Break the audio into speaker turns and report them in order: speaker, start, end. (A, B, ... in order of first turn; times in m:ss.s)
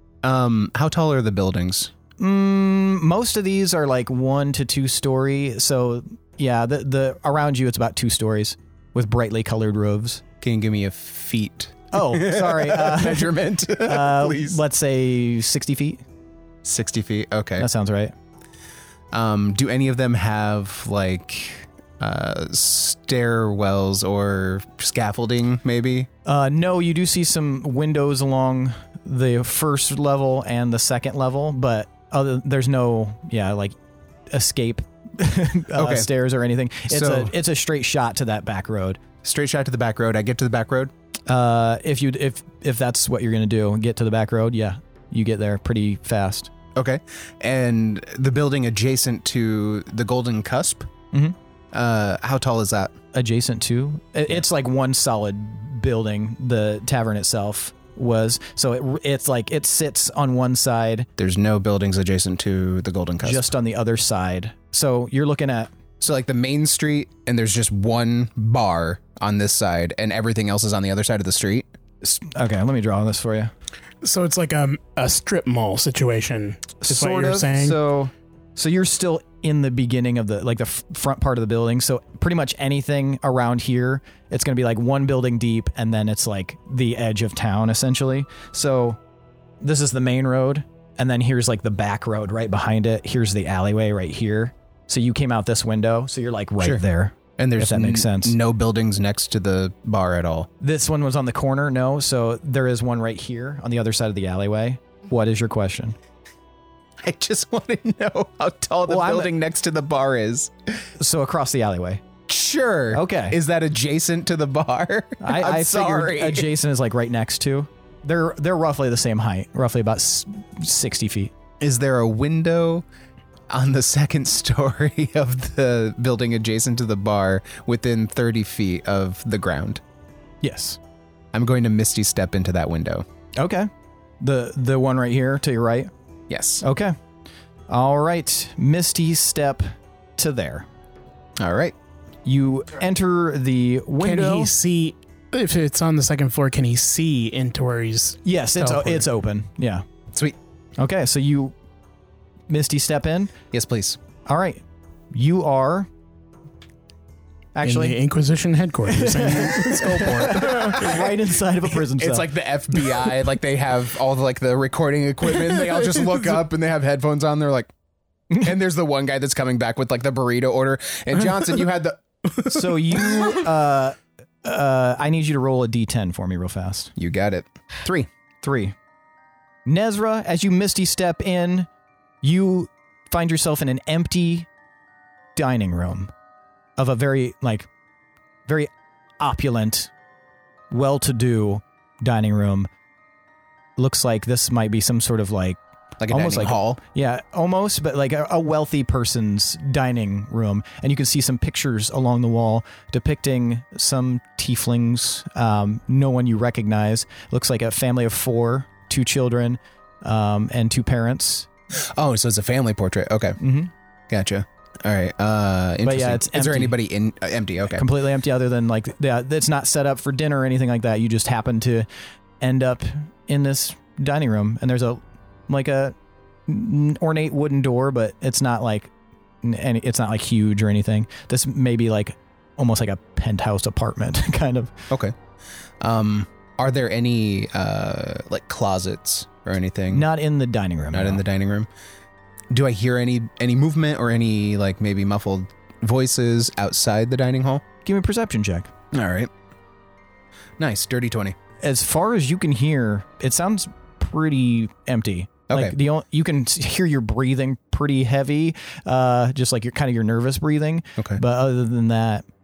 0:00.2-0:01.9 A
0:02.2-0:10.2 B
0:10.4-0:14.6 A
0:11.9-0:16.0 B
0:16.6-0:17.7 A
0:17.6-0:18.1 B
0:19.1-0:26.1 A
0:26.2-0:33.8 B
0:34.3-0:39.0 B
0:35.7-0:36.1 A
0:36.9-0:37.3 A
0:39.2-0:40.9 A
0:41.3-0:46.5 B
0:46.8-0:50.9 A
0:51.7-0:53.0 A
0:53.1-1:01.1 B
1:01.2-1:03.5 A
1:03.2-1:05.7 B
1:06.0-1:11.7 A
1:12.0-1:13.5 B
1:14.0-1:17.8 C
1:16.8-1:29.0 B
1:29.6-1:38.4 B
1:37.4-1:40.5 A
1:40.6-1:46.0 B
1:47.0-1:50.8 A
1:48.9-1:49.3 B
1:51.0-1:52.0 B
1:52.3-1:56.5 A
1:52.9-1:53.4 B
1:55.2-2:01.3 B
2:01.6-2:02.8 A
2:03.5-2:09.8 A
2:10.4-2:10.8 B
2:11.3-2:13.0 A
2:13.4-2:13.7 B
2:14.2-2:15.9 B
2:16.3-2:16.6 A
2:16.6-2:16.9 B
2:17.7-2:20.7 B
2:21.4-2:21.7 A
2:22.2-2:24.5 B
2:24.0-2:29.0 C
2:28.2-2:29.8 B
2:30.8-2:31.5 B
2:32.5-2:33.3 B
2:33.5-2:34.0 A
2:34.2-2:34.6 B
2:35.1-2:35.9 B
2:37.5-2:38.0 B
2:37.6-2:41.1 C
2:38.9-2:42.3 B
2:42.0-2:47.7 A
2:48.3-2:52.7 A
2:52.5-2:56.9 B
2:57.0-2:58.1 A
2:58.4-2:58.7 B
2:59.6-3:01.7 B
3:02.2-3:04.5 B
3:05.4-3:06.1 B
3:06.8-3:07.7 B
3:08.5-3:09.9 B
3:10.7-3:12.7 B
3:13.8-3:31.5 B
3:16.0-3:16.8 A
3:31.7-3:33.4 A
3:33.4-3:33.7 B
3:34.1-3:37.8 A
3:35.8-3:36.8 B
3:37.7-3:41.9 B
3:42.4-3:45.9 B
3:46.5-3:48.9 B
3:49.4-3:54.8 B
3:54.9-3:55.2 A
3:55.8-4:00.1 A
3:59.9-4:01.2 B
4:00.9-4:01.7 A
4:02.5-4:07.6 A
4:07.8-4:08.7 B
4:08.9-4:09.3 A
4:10.6-4:11.4 A
4:11.6-4:22.2 B
4:15.5-4:15.7 A